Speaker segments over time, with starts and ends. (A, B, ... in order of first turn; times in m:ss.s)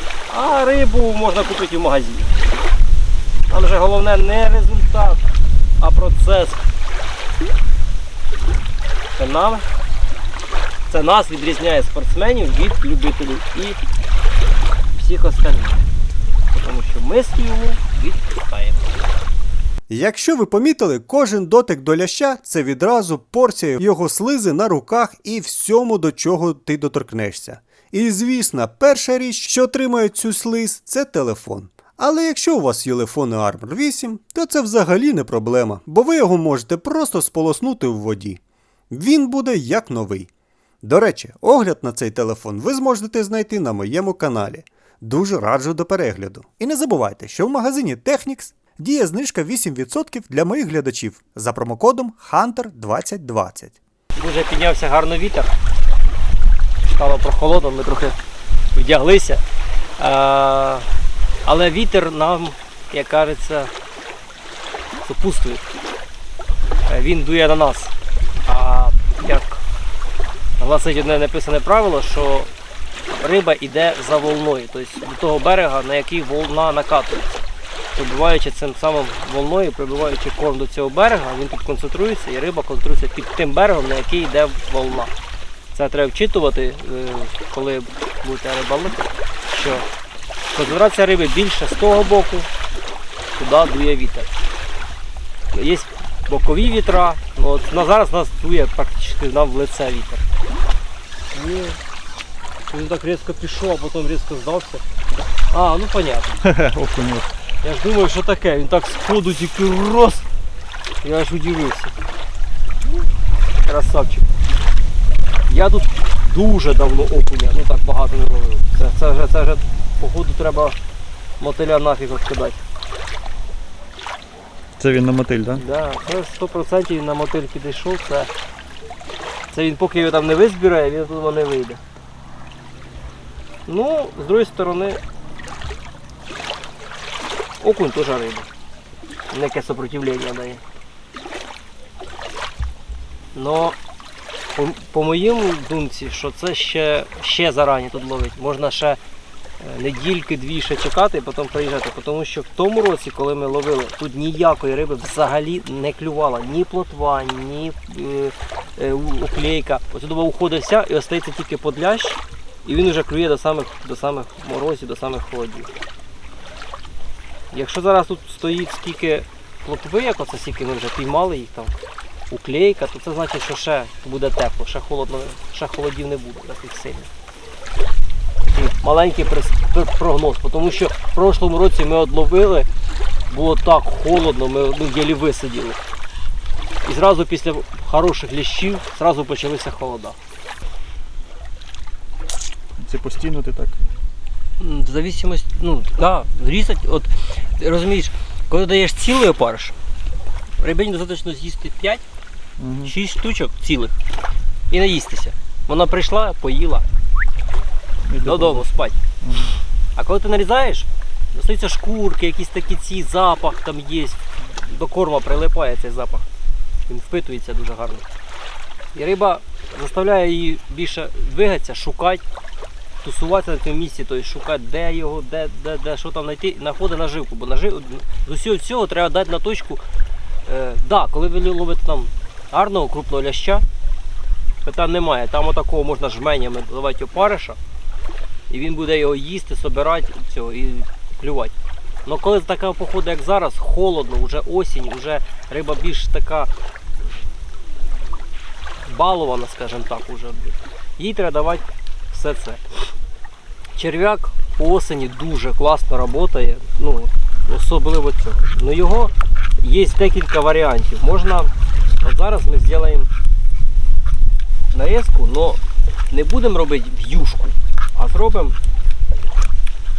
0:00.3-0:02.4 A
0:03.5-0:05.2 A
0:05.8-0:06.6 A
0:09.1-0:09.6 A
0:10.9-0:13.8 A
0:14.9-0:15.9 A
0:16.6-0:18.9 A
0:19.9-0:40.3 B
0:40.8-0:53.8 B
0:54.1-0:55.5 A
0:56.9-0:58.2 A
0:58.7-0:59.4 A
1:00.0-1:00.9 A
1:01.4-1:03.7 A
1:05.0-1:05.7 A
1:06.9-1:07.9 A
1:08.4-1:09.6 A
1:10.6-1:12.5 A
1:13.1-1:17.4 A
1:18.0-1:25.1 A
1:25.7-1:29.9 A
1:30.5-1:32.5 A
1:33.4-1:34.3 A
1:35.5-1:40.2 A
1:41.3-1:41.8 A
1:42.7-1:44.8 A
1:45.5-1:46.4 A
1:46.4-1:47.3 C
1:47.6-1:50.3 A
1:51.0-1:51.9 A
1:53.6-1:54.3 A
1:55.5-2:00.8 A
2:01.4-2:02.6 A
2:04.8-2:05.6 C
2:05.5-2:08.3 A
2:09.5-2:11.8 A
2:13.7-2:15.0 A
2:17.6-2:18.5 A
2:19.3-2:20.6 A
2:23.4-2:23.8 A
2:24.5-2:29.0 A
2:29.6-2:45.7 A
2:47.5-2:51.7 A
2:52.3-2:57.1 A
2:58.4-3:02.7 A
3:03.3-3:05.8 A
3:06.8-3:10.2 A
3:12.8-3:13.8 C
3:14.6-3:19.8 A
3:20.6-3:22.0 A
3:22.6-3:22.9 C
3:22.8-3:24.0 A
3:24.7-3:26.8 A
3:28.1-3:28.6 C
3:28.2-3:29.0 A
3:29.2-3:29.5 C
3:30.0-3:36.2 A
3:36.9-3:38.0 A
3:39.0-3:42.2 A
3:43.0-3:49.8 A
3:50.5-3:53.6 A
3:54.6-3:57.6 A
3:58.5-4:01.5 A
4:02.0-4:06.5 A
4:08.8-4:12.8 A
4:13.8-4:23.1 A
4:24.7-4:25.6 A
4:26.1-4:28.6 A